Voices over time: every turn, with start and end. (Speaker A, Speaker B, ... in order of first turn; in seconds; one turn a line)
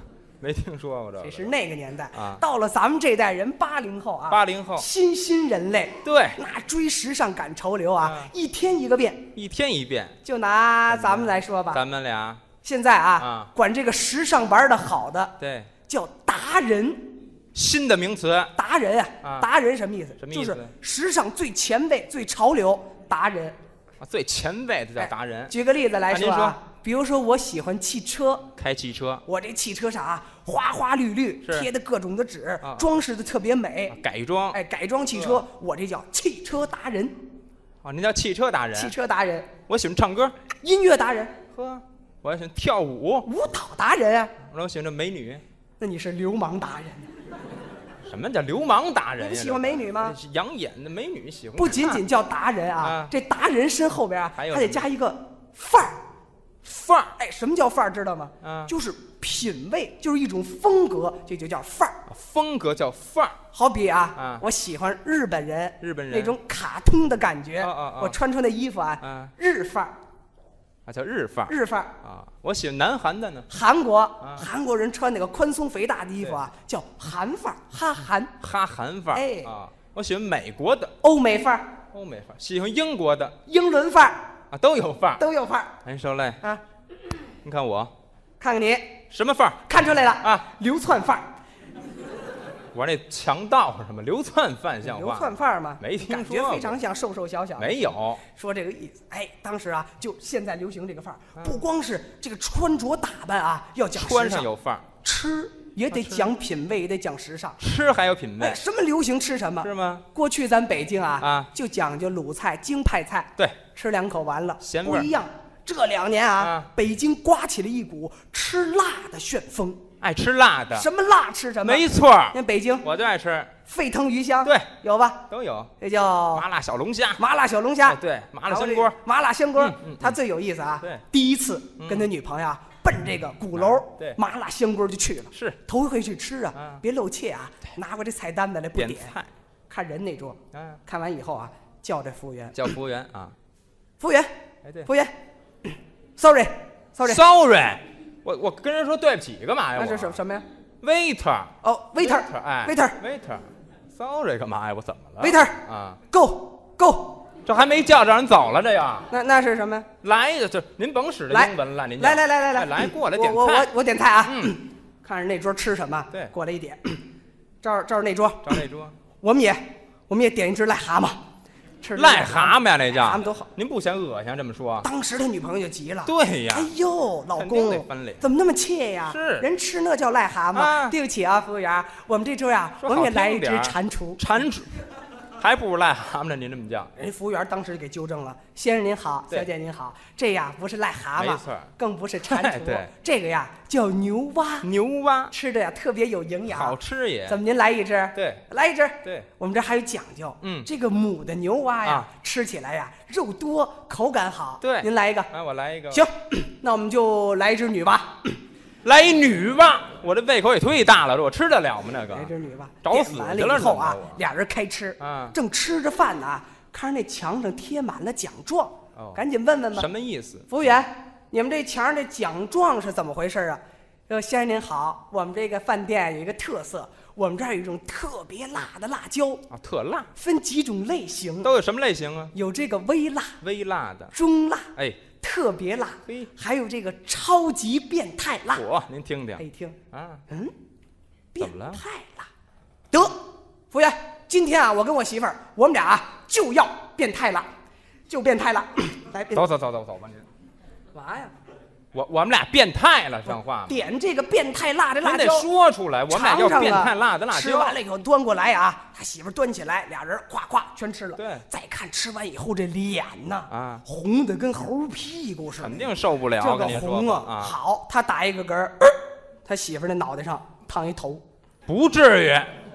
Speaker A: 0.4-1.5
Speaker B: 1.2-9.3
Speaker A: 2.1-2.4
Speaker A: 4.3-4.9
Speaker A: 6.0-6.4
Speaker A: 8.0-8.3
Speaker A: 9.3-10.2
Speaker B: 10.2-11.8
Speaker A: 10.9-12.4
Speaker B: 12.6-15.3
Speaker A: 13.2-13.5
Speaker A: 15.4-15.7
Speaker B: 15.9-17.2
Speaker A: 17.5-18.5
Speaker B: 18.5-23.6
Speaker A: 19.2-19.5
Speaker A: 20.2-20.7
Speaker A: 24.0-25.6
Speaker B: 25.0-28.5
Speaker A: 26.1-26.6
Speaker A: 28.6-29.2
Speaker B: 29.2-34.0
Speaker A: 31.4-31.7
Speaker A: 32.6-33.0
Speaker A: 33.9-34.6
Speaker B: 34.5-37.2
Speaker A: 35.1-35.4
Speaker A: 37.8-39.0
Speaker B: 38.7-39.5
Speaker A: 39.7-40.3
Speaker B: 40.6-41.4
Speaker A: 41.5-43.3
Speaker B: 43.2-44.4
Speaker A: 44.4-45.4
Speaker B: 45.8-47.1
Speaker A: 48.0-52.0
Speaker B: 49.2-50.1
Speaker B: 51.5-56.0
Speaker A: 52.8-53.1
Speaker A: 54.3-54.9
Speaker A: 56.6-57.1
Speaker B: 57.2-62.0
Speaker A: 58.4-58.7
Speaker A: 62.1-63.4
Speaker B: 63.5-70.0
Speaker A: 64.2-64.4
Speaker A: 65.8-66.4
Speaker A: 67.6-68.2
Speaker A: 69.0-69.3
Speaker A: 70.8-73.5
Speaker B: 71.5-72.0
Speaker B: 73.5-78.3
Speaker A: 74.2-74.5
Speaker A: 76.2-76.4
Speaker A: 78.4-81.0
Speaker B: 79.1-79.5
Speaker B: 81.0-81.8
Speaker A: 81.9-83.4
Speaker B: 83.5-84.3
Speaker A: 84.5-85.2
Speaker B: 85.2-85.8
Speaker A: 85.8-86.4
Speaker A: 87.4-87.9
Speaker B: 88.4-89.0
Speaker A: 89.1-90.5
Speaker B: 89.7-91.3
Speaker A: 92.7-96.8
Speaker B: 94.8-104.5
Speaker A: 97.6-98.2
Speaker A: 101.4-101.6
Speaker A: 103.9-104.8
Speaker B: 105.0-107.6
Speaker A: 105.9-106.3
Speaker A: 107.6-108.6
Speaker B: 108.4-119.8
Speaker A: 109.6-110.0
Speaker A: 111.2-111.5
Speaker A: 114.6-115.1
Speaker A: 116.4-116.7
Speaker A: 120.0-120.9
Speaker B: 120.7-122.9
Speaker A: 121.6-123.5
Speaker B: 123.7-125.2
Speaker A: 124.4-124.7
Speaker A: 125.3-125.7
Speaker B: 125.8-126.5
Speaker A: 126.3-127.2
Speaker B: 127.2-139.1
Speaker A: 127.8-129.0
Speaker A: 129.6-130.2
Speaker A: 131.8-132.1
Speaker A: 133.5-134.2
Speaker A: 135.3-135.6
Speaker A: 136.5-136.8
Speaker A: 138.7-139.3
Speaker B: 139.7-142.6
Speaker A: 140.5-140.8
Speaker A: 142.5-143.3
Speaker B: 144.0-144.3
Speaker A: 144.6-144.9
Speaker B: 144.8-145.1
Speaker B: 145.6-147.2
Speaker A: 147.0-150.2
Speaker B: 149.8-150.4
Speaker A: 150.8-156.0
Speaker B: 151.6-153.0
Speaker B: 155.2-157.2
Speaker A: 157.4-159.1
Speaker B: 159.1-159.9
Speaker A: 160.0-163.7
Speaker B: 161.3-167.0
Speaker A: 164.2-164.6
Speaker B: 167.6-168.6
Speaker A: 168.4-168.9
Speaker B: 169.2-171.2
Speaker B: 171.8-173.5
Speaker A: 171.9-174.9
Speaker B: 174.8-184.2
Speaker A: 176.0-176.7
Speaker A: 177.3-178.3
Speaker A: 179.1-179.5
Speaker A: 180.5-180.9
Speaker A: 182.8-184.7
Speaker A: 185.4-186.9
Speaker B: 186.9-194.7
Speaker A: 191.2-191.7
Speaker A: 192.3-192.9
Speaker A: 194.6-195.3
Speaker B: 195.3-196.7
Speaker A: 196.4-197.4
Speaker B: 197.3-205.3
Speaker A: 198.1-198.4
Speaker A: 199.0-199.3
Speaker A: 200.4-200.7
Speaker A: 201.8-202.1
Speaker A: 204.6-206.1
Speaker B: 205.9-208.4
Speaker A: 208.8-212.3
Speaker B: 212.1-219.9
Speaker A: 212.8-214.2
Speaker A: 215.0-215.3
Speaker A: 218.9-219.2
Speaker A: 219.7-220.5
Speaker B: 220.5-229.4
Speaker A: 229.5-230.1
Speaker B: 230.1-231.5
Speaker A: 231.4-232.3
Speaker B: 232.3-233.4
Speaker A: 233.4-234.1
Speaker B: 234.1-238.7
Speaker A: 234.8-235.0
Speaker A: 236.1-236.3
Speaker A: 238.5-240.2
Speaker B: 239.4-239.8
Speaker B: 241.3-242.3
Speaker A: 241.4-241.8
Speaker B: 242.9-243.2
Speaker B: 243.7-247.5
Speaker B: 248.1-249.4
Speaker A: 249.3-250.2
Speaker B: 250.9-251.3
Speaker A: 251.9-253.8
Speaker B: 253.7-255.5
Speaker A: 255.0-257.8
Speaker B: 256.1-271.2
Speaker A: 261.1-261.4
Speaker A: 263.5-263.8
Speaker A: 265.6-267.6
Speaker A: 271.7-272.5